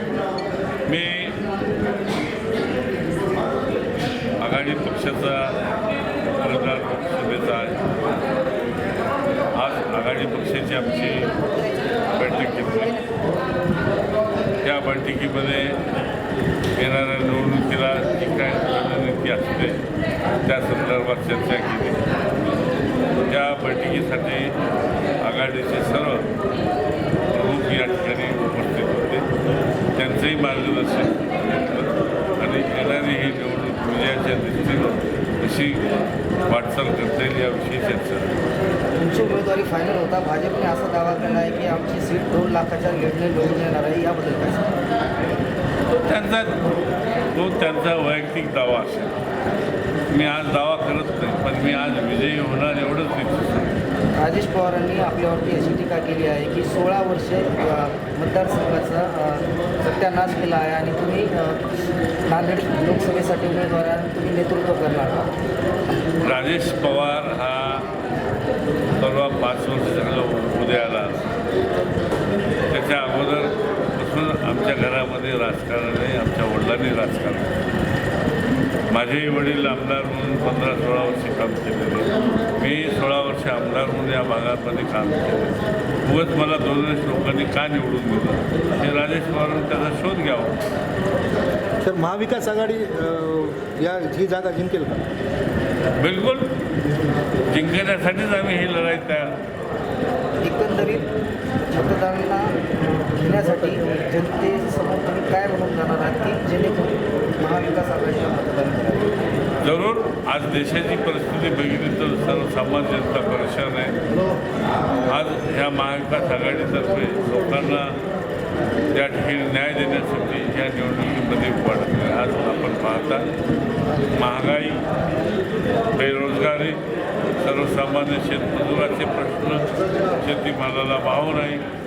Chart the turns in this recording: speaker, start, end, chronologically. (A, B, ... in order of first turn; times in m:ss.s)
0:00.9-0:01.4 A
0:04.4-0:05.6 A
0:06.3-0:07.8 A
0:09.5-0:11.3 A
0:11.3-0:13.2 B
0:12.1-0:13.0 A
0:14.6-0:15.6 A
0:16.8-0:19.8 A
0:20.4-0:22.1 A
0:23.2-0:24.5 A
0:25.2-0:26.3 A
0:27.3-0:29.2 A
0:29.9-0:35.8 A
0:36.4-0:38.3 A
0:39.0-0:44.8 B
0:45.9-0:46.7 A
0:47.3-0:49.1 A
0:50.1-0:53.8 A
0:54.2-1:01.6 B
1:02.3-1:05.3 B
1:06.2-1:07.8 A
1:08.9-1:11.3 A
1:12.7-1:17.5 A
1:18.9-1:30.6 A
1:31.8-1:35.0 C
1:36.0-1:36.5 A
1:37.5-1:39.4 A
1:40.4-1:41.1 B
1:41.7-1:42.5 B
1:43.2-1:49.1 B
1:49.6-1:54.0 A
1:55.1-1:58.0 A
1:58.9-2:03.2 A
2:04.1-2:04.8 A
2:05.9-2:06.8 A
2:07.4-2:11.6 A